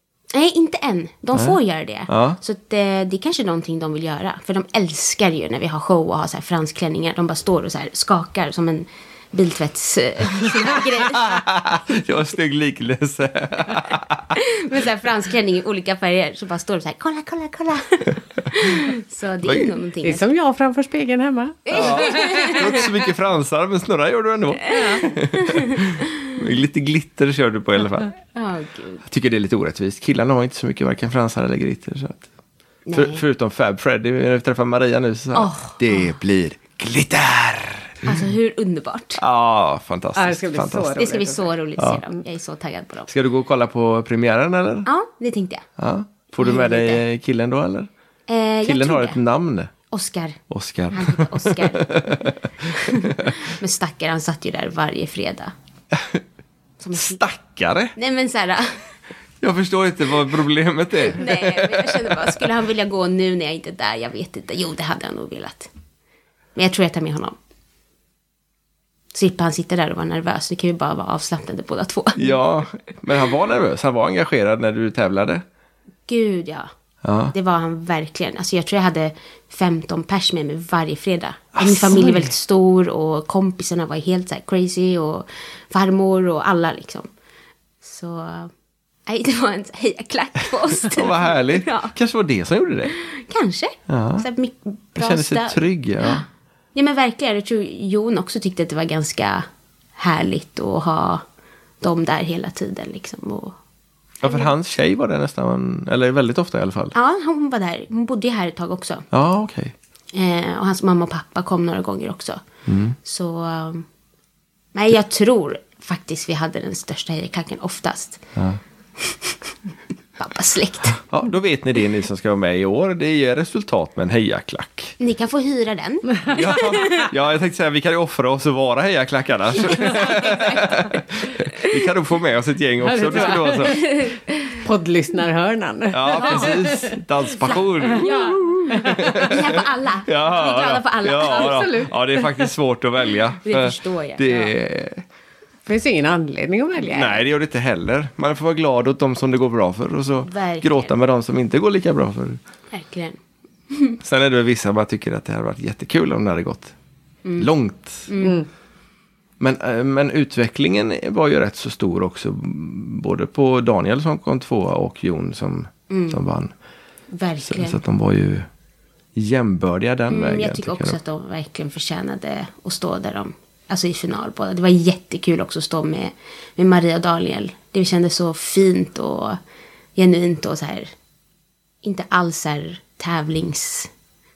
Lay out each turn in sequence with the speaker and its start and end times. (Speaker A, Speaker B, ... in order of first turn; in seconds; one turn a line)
Speaker A: 0.3-11.5
Speaker B: 2.1-2.4
Speaker B: 11.1-14.4
Speaker A: 14.3-20.3
Speaker B: 19.4-19.7
Speaker C: 20.0-22.6
Speaker A: 21.7-22.9
Speaker B: 21.7-28.1
Speaker A: 24.7-26.3
Speaker C: 24.7-25.0
Speaker A: 28.3-29.0
Speaker B: 29.1-32.2
Speaker A: 32.9-33.2
Speaker B: 33.0-38.2
Speaker A: 35.3-36.2
Speaker A: 38.0-39.2
Speaker B: 39.2-41.0
Speaker C: 40.2-41.5
Speaker A: 41.0-43.1
Speaker B: 43.1-44.9
Speaker A: 44.9-45.7
Speaker B: 45.8-47.9
Speaker A: 46.4-47.0
Speaker A: 48.3-49.2
Speaker B: 48.6-49.7
Speaker A: 49.9-50.4
Speaker B: 50.5-53.4
Speaker A: 50.9-55.5
Speaker B: 55.9-56.2
Speaker A: 56.8-57.2
Speaker B: 57.0-57.9
Speaker A: 58.0-58.8
Speaker B: 59.4-62.4
Speaker A: 61.0-65.7
Speaker A: 66.6-67.4
Speaker A: 69.1-72.4
Speaker B: 72.2-75.4
Speaker A: 76.1-76.7
Speaker B: 77.0-77.3
Speaker A: 77.3-87.1
Speaker B: 81.5-82.3
Speaker A: 87.8-88.5
Speaker A: 89.1-91.9
Speaker B: 90.8-92.9
Speaker A: 92.9-101.2
Speaker B: 93.9-94.3
Speaker B: 95.0-96.2
Speaker A: 101.8-103.6
Speaker A: 104.2-104.5
Speaker B: 104.2-107.0
Speaker A: 106.9-109.1
Speaker B: 109.1-109.7
Speaker A: 110.1-112.4
Speaker B: 112.7-113.0
Speaker A: 113.0-113.9
Speaker A: 114.7-118.3
Speaker A: 119.0-119.5
Speaker A: 120.2-121.0
Speaker B: 121.0-125.0
Speaker A: 125.0-127.1
Speaker B: 126.3-133.8
Speaker A: 129.7-130.9
Speaker C: 132.8-133.8
Speaker A: 133.2-134.6
Speaker C: 134.6-137.0
Speaker B: 135.9-145.0
Speaker A: 136.1-136.7
Speaker A: 137.4-141.9
Speaker C: 137.8-139.3
Speaker C: 141.3-141.9
Speaker A: 143.4-144.5
Speaker C: 145.7-147.2
Speaker B: 146.8-152.4
Speaker A: 150.2-150.9
Speaker A: 152.7-153.2
Speaker A: 153.7-154.0
Speaker B: 154.0-156.7
Speaker A: 157.2-157.5
Speaker B: 157.4-158.1
Speaker A: 158.1-158.4
Speaker B: 159.4-166.5
Speaker A: 165.9-166.2
Speaker A: 167.1-167.8
Speaker B: 167.4-168.5
Speaker B: 169.2-171.0
Speaker A: 170.1-179.4
Speaker A: 180.0-180.9
Speaker A: 181.8-183.9